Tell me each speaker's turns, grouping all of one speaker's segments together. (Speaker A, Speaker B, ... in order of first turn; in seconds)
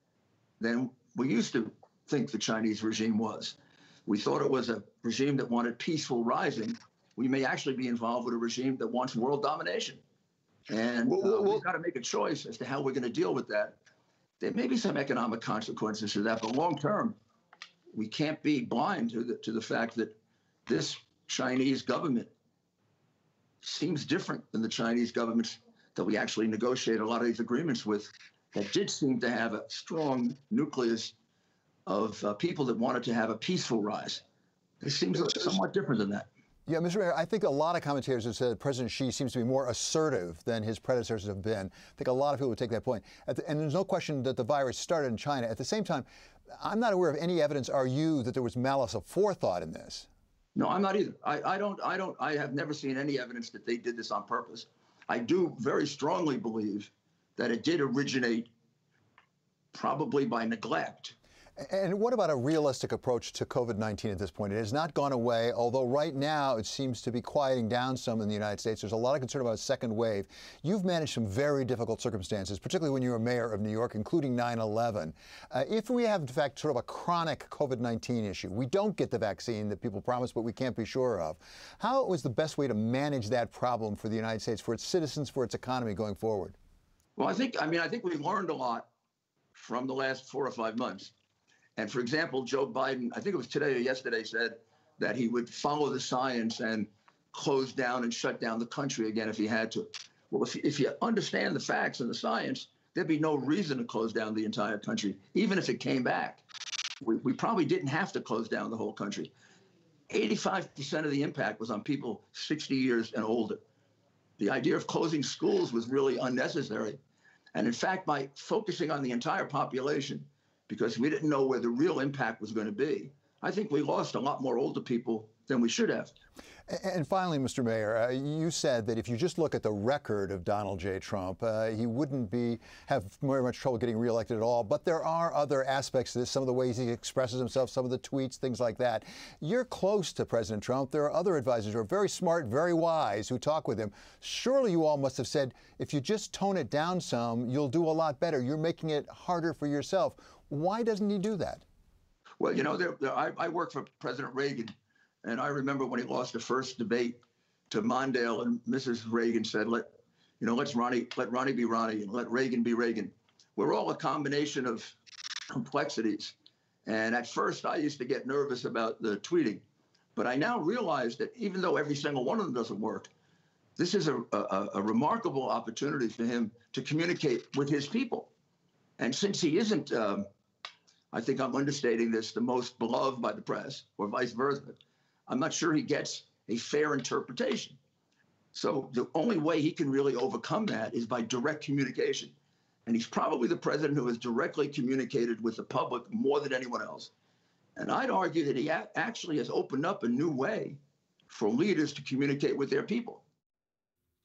Speaker A: 0.6-10.0, 10.7-13.8, 14.4-17.2, 17.9-20.1, 20.7-22.3, 23.6-31.1, 31.9-34.2, 34.8-36.3, 50.6-58.5, 59.7-61.1, 87.2-88.9, 89.5-91.1, 91.8-106.4, 107.0-109.3, 110.1-113.6, 114.4-117.0, 117.5-126.1, 152.4-157.2, 157.7-165.0, 165.5-169.6, 170.2-173.1, 173.8-178.3, 179.0-180.3, 181.1-187.8, 188.5-192.3, 192.9-197.1, 197.8-200.8, 201.3-203.2
Speaker B: 11.1-11.6, 36.7-50.1, 61.6-86.6, 126.7-151.6